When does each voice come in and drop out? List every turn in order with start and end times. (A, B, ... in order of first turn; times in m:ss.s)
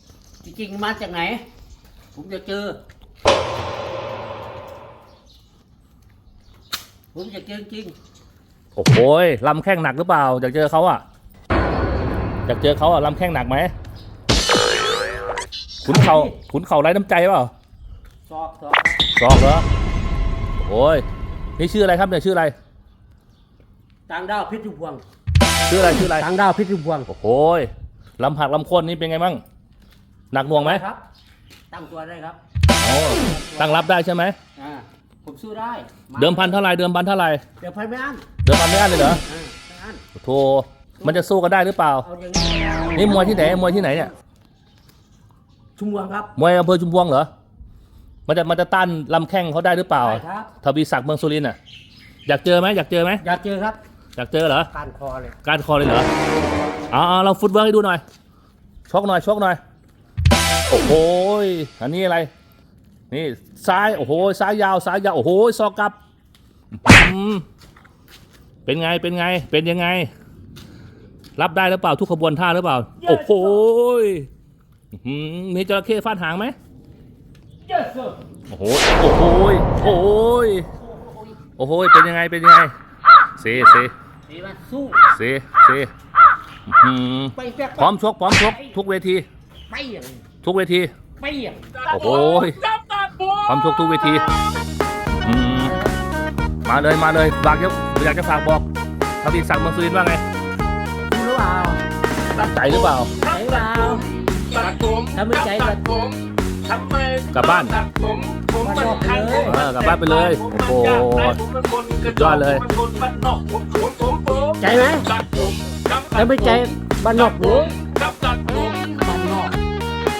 0:00.4-0:01.4 A
0:02.1-0:02.8 A
0:07.1-0:07.9 A
0:08.8-0:11.0 B
0:12.5-0:13.7 B
0:15.8-0:17.5 B
0:15.8-0:16.4 A
0:18.3-0:19.0 A
0:19.1-0:19.6 B
0:20.6-0:21.0 B
0:21.6-0:22.5 B
0:24.1-0:25.0 A
0:25.7-0:26.3 B
0:26.1-0:27.1 A
0:27.1-0:29.4 B
0:30.3-0:30.8 B
0:30.5-0:31.0 A
0:31.7-0:32.4 A
0:32.8-0:34.4 B
0:33.3-0:33.9 A
0:34.6-0:36.7 A
0:36.2-0:37.4 B
0:37.6-0:38.2 A
0:38.4-0:39.2 B
0:39.2-0:40.0 A
0:40.2-0:42.1 B
0:41.0-0:41.3 A
0:42.0-0:44.1 A
0:43.0-0:44.1 B
0:45.8-0:46.3 A
0:46.4-0:47.3 B
0:48.3-0:51.6 B
0:50.0-0:50.5 A
0:52.2-0:53.2 B
0:53.2-0:53.8 A
0:54.2-0:54.7 B
0:54.7-0:55.4 A
0:55.4-0:56.1 B
0:56.9-0:58.0 B
0:58.9-0:59.6 B
1:00.7-1:02.3 B
1:03.1-1:06.0 B
1:06.7-1:07.4 B
1:08.6-1:10.1 B
1:11.4-1:14.3 B
1:13.0-1:13.6 A
1:14.9-1:16.5 B
1:17.7-1:18.2 A
1:18.5-1:20.7 B
1:20.8-1:21.4 A
1:21.6-1:22.7 B
1:23.4-1:23.9 B
1:24.3-1:25.1 A
1:25.1-1:25.9 B
1:26.7-1:29.3 B
1:27.3-1:27.9 A
1:29.7-1:30.2 A
1:30.4-1:30.9 B
1:31.2-1:31.7 A
1:31.8-1:33.5 C
1:31.9-1:32.6 B
1:33.4-1:34.3 B
1:34.1-1:34.4 C
1:35.2-1:35.8 B
1:35.6-1:35.9 A
1:36.6-1:38.7 B
1:39.2-1:40.2 B
1:41.1-1:41.8 A
1:42.3-1:43.1 B
1:42.8-1:59.0 C
1:43.2-1:44.0 A
1:45.1-1:45.8 A
1:47.3-1:47.8 B
1:48.6-1:49.6 A
1:49.4-1:51.4 B
1:52.0-1:52.6 B
1:54.6-1:55.1 A
1:56.1-1:57.8 A
1:59.0-1:59.6 A